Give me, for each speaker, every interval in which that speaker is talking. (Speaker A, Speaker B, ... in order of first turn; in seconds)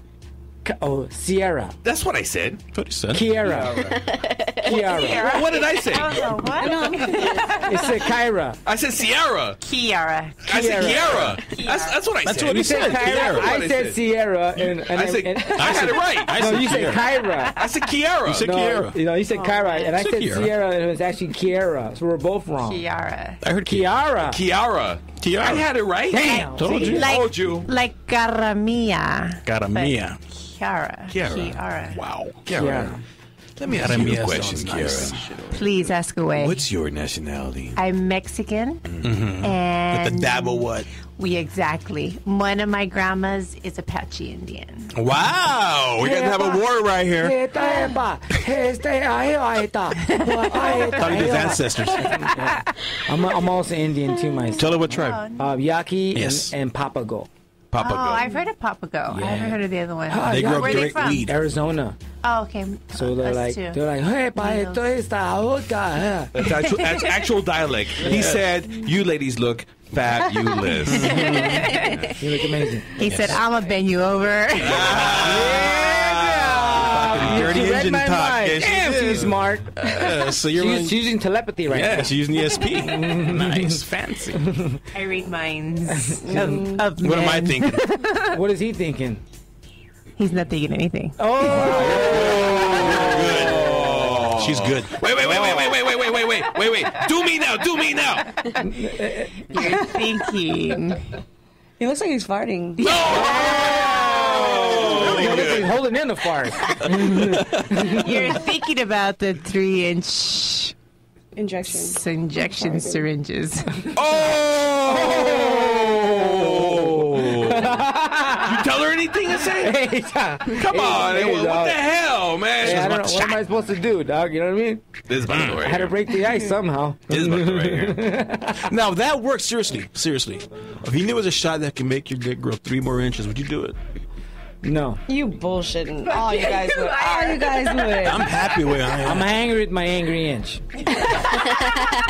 Speaker A: 0.6-1.8, 3.1-3.8, 4.6-5.3, 7.5-8.6, 10.5-11.4, 12.4-17.5, 18.4-22.8, 23.6-24.4, 26.1-27.0, 32.6-32.9, 46.0-46.6, 47.2-54.8, 55.4-57.3, 60.1-62.0, 62.9-66.4, 72.2-73.0, 75.0-82.2, 82.8-83.8, 84.4-84.8, 85.9-86.8, 88.2-89.2, 91.2-94.0, 98.6-99.6, 103.1-103.7, 105.0-108.3, 114.9-118.7, 119.6-121.8, 122.6-124.8, 125.6-128.7, 134.6-135.0, 139.0-140.8
Speaker B: 1.8-2.6, 3.5-3.9, 5.2-6.5, 8.6-9.6, 10.4-14.0, 14.6-16.4, 17.5-18.5, 24.2-27.7, 31.1-31.6, 32.5-33.0, 33.6-35.4, 36.4-37.8, 38.9-39.1, 57.7-58.4, 66.3-72.1, 74.6-77.6, 91.6-98.6, 102.8-105.7, 106.9-107.8, 113.9-117.8, 118.4-119.8, 120.5-123.4, 125.1-126.0, 127.1-128.0
Speaker C: 2.7-3.6, 12.2-13.6, 15.5-17.1, 18.2-19.0, 19.9-20.5, 23.4-23.9, 25.2-25.7, 26.4-27.1, 29.4-30.2, 31.9-33.0, 33.7-35.7, 39.0-40.9, 44.9-47.4, 51.0-52.3, 54.6-55.2, 56.1-56.5, 59.1-59.6, 60.2-61.4, 68.1-68.3, 70.8-72.0, 73.0-73.4, 74.8-75.5, 76.8-81.0, 81.7-84.5, 87.0-87.8, 91.5-93.5, 94.3-95.6, 122.6-123.0, 125.3-125.6, 128.6-133.8, 138.0-139.3
Speaker D: 4.2-7.8, 9.6-10.4, 11.4-12.0, 19.3-19.9, 22.6-23.4, 26.2-32.0, 35.5-36.6, 37.8-38.8, 39.4-44.9, 50.0-51.4, 54.6-55.4, 57.8-61.3, 62.2-63.8, 64.3-64.8, 66.8-67.1, 70.7-72.1, 73.0-75.2, 84.9-88.4, 90.2-91.9, 99.5-101.0, 102.8-105.0, 107.9-110.7, 111.7-113.9, 136.1-138.5, 141.3-141.9
Speaker E: 4.7-5.1, 6.5-7.5, 86.2-86.9, 101.8-102.9, 111.3-112.0, 135.1-138.3